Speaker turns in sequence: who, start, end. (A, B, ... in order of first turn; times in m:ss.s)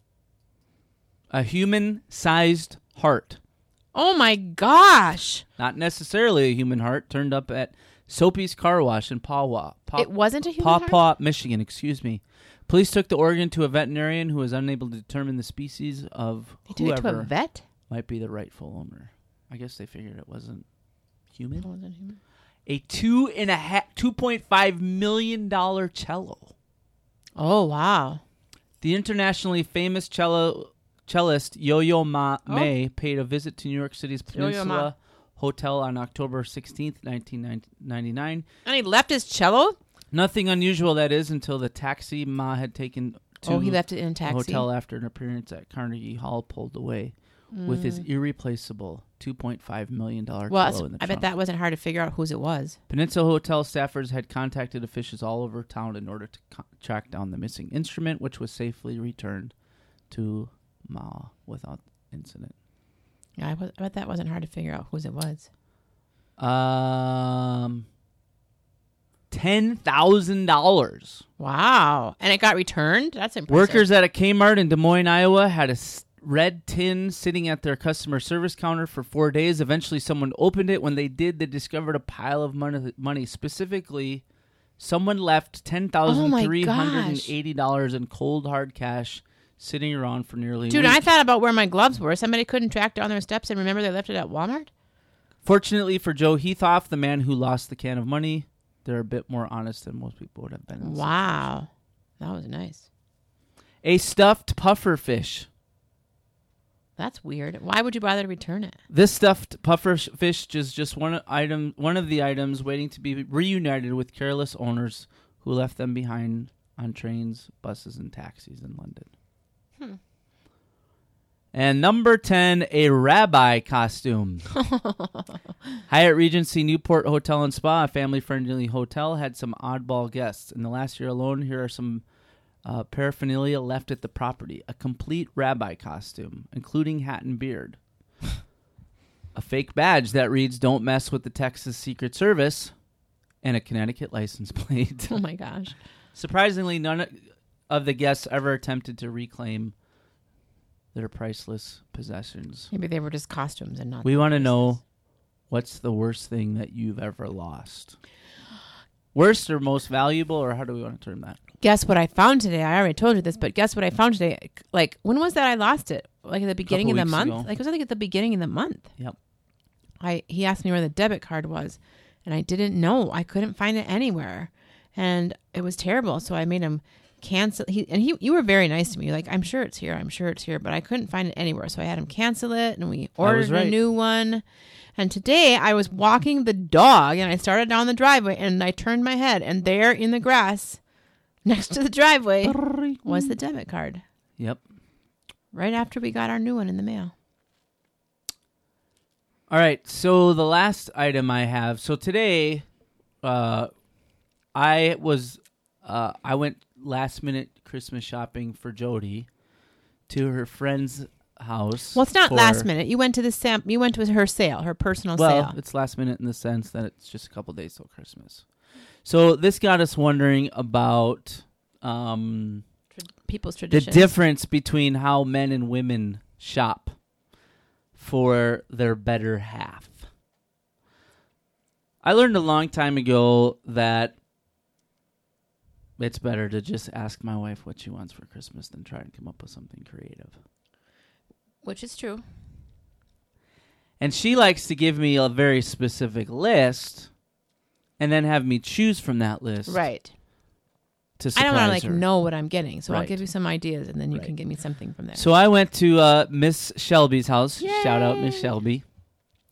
0:01.3-0:03.4 A
0:03.9-0:05.4 B
0:05.6-0:17.3 A
0:10.0-0:11.0 B
0:16.7-0:17.6 B
0:17.9-0:20.6 A
0:21.3-0:21.7 A
0:21.6-0:22.2 B
0:22.7-0:26.5 A
0:27.4-0:28.2 B
0:28.8-0:38.5 A
0:34.3-0:34.9 B
0:38.6-0:39.8 B
0:40.1-0:51.3 A
0:43.4-0:44.7 B
0:47.5-0:48.0 B
0:50.5-0:52.8 B
0:52.9-0:59.5 A
1:00.1-1:02.5 A
1:03.4-1:05.5 B
1:06.4-1:07.9 A
1:09.3-1:11.2 A
1:11.4-1:13.9 B
1:13.5-1:24.2 A
1:24.8-1:31.1 A
1:26.1-1:27.3 B
1:30.7-1:34.7 B
1:35.4-1:41.1 A
1:40.8-1:41.7 B
1:42.2-1:42.9 B
1:43.8-1:45.5 A
1:47.0-1:48.8 B
1:48.9-1:59.1 A
2:01.5-2:04.5 A
2:04.6-2:05.4 B
2:05.9-2:12.0 A
2:12.6-2:17.8 A
2:19.4-2:22.7 A
2:23.4-2:25.2 A
2:25.1-2:25.8 B
2:26.2-2:27.2 A
2:27.7-2:29.7 A
2:30.9-2:32.7 A
2:32.7-2:34.7 B
2:34.0-2:34.8 A
2:35.5-2:38.0 A
2:39.1-2:41.4 A
2:41.6-2:48.9 B
2:46.7-2:47.5 A
2:50.0-3:04.4 B
3:03.2-3:03.8 A
3:05.0-3:10.8 B
3:11.4-3:14.0 B
3:12.4-3:13.3 A
3:15.5-3:17.1 B
3:19.5-3:22.7 A
3:23.2-3:23.7 A
3:24.5-3:29.3 A
3:30.1-3:32.7 A
3:32.0-3:35.6 B
3:35.2-3:38.4 A
3:39.0-3:42.6 A
3:43.0-3:44.1 B
3:43.7-3:47.0 A
3:48.0-3:50.0 A
3:52.0-3:54.2 A
3:56.0-4:00.4 A
4:01.6-4:02.2 B
4:04.0-4:07.1 A
4:08.0-4:09.8 A
4:09.7-4:10.1 B
4:11.2-4:12.0 A
4:11.4-4:15.2 B
4:12.9-4:13.2 A
4:15.1-4:18.8 A
4:17.6-4:18.5 B